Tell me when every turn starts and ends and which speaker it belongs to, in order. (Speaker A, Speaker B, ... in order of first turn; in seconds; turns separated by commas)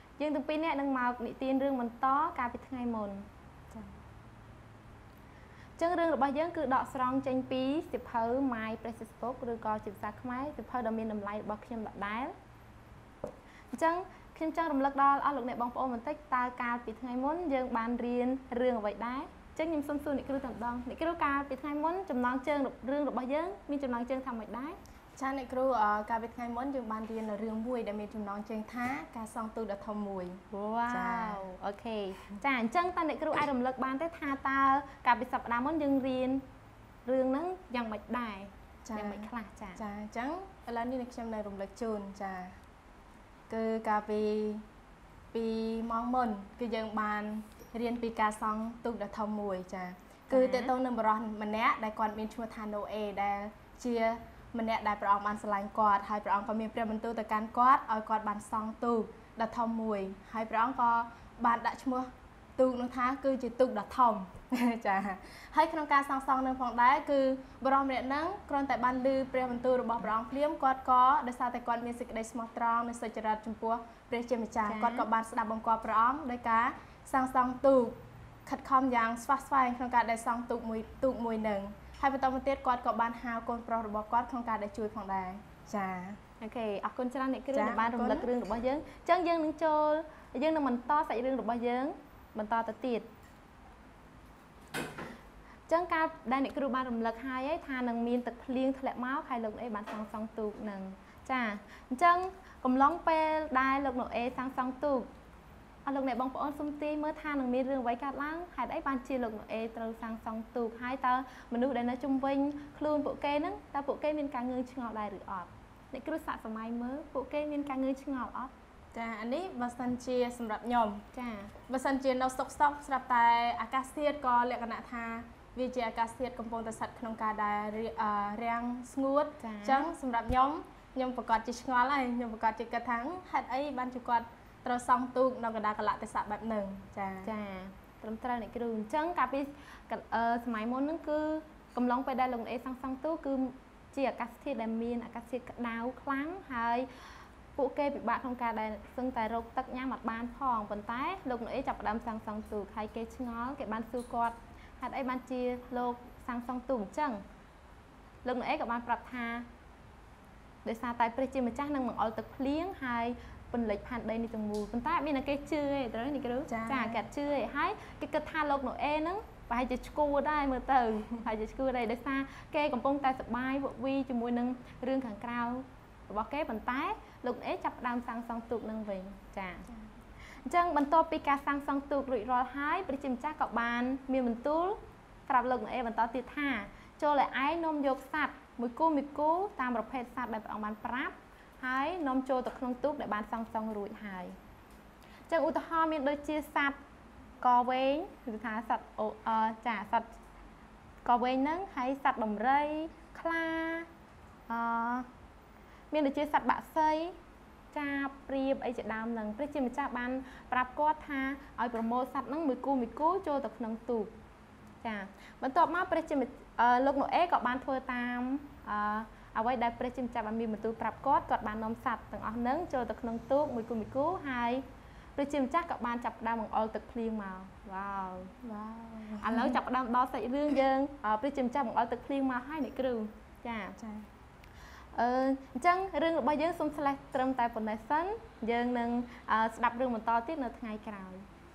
Speaker A: 0.2-3.2, Speaker A: 5.8-12.3, Speaker A: 13.7-24.8, Speaker B: 25.1-31.4, Speaker A: 30.5-36.4, Speaker A: 37.0-39.8, Speaker B: 38.8-42.5, Speaker B: 43.5-44.6, Speaker B: 45.3-86.2, Speaker A: 50.3-50.7, Speaker A: 74.7-75.1, Speaker A: 86.4-93.1, Speaker B: 87.5-88.3, Speaker A: 95.7-105.1, Speaker A: 105.8-118.5, Speaker B: 118.9-121.0, Speaker A: 121.1-121.5, Speaker B: 121.7-137.3, Speaker A: 129.4-129.9, Speaker A: 137.2-146.9, Speaker A: 147.6-157.2, Speaker A: 158.2-159.4, Speaker A: 160.6-179.7, Speaker B: 166.5-167.0, Speaker A: 180.4-194.3, Speaker A: 195.3-196.8, Speaker A: 197.4-200.1, Speaker A: 201.0-203.9, Speaker A: 204.5-205.1, Speaker A: 205.9-207.1, Speaker A: 207.7-214.1, Speaker A: 214.8-224.6, Speaker A: 225.2-228.3, Speaker B: 228.4-229.6, Speaker A: 229.2-233.8, Speaker B: 233.8-234.1, Speaker A: 234.9-241.2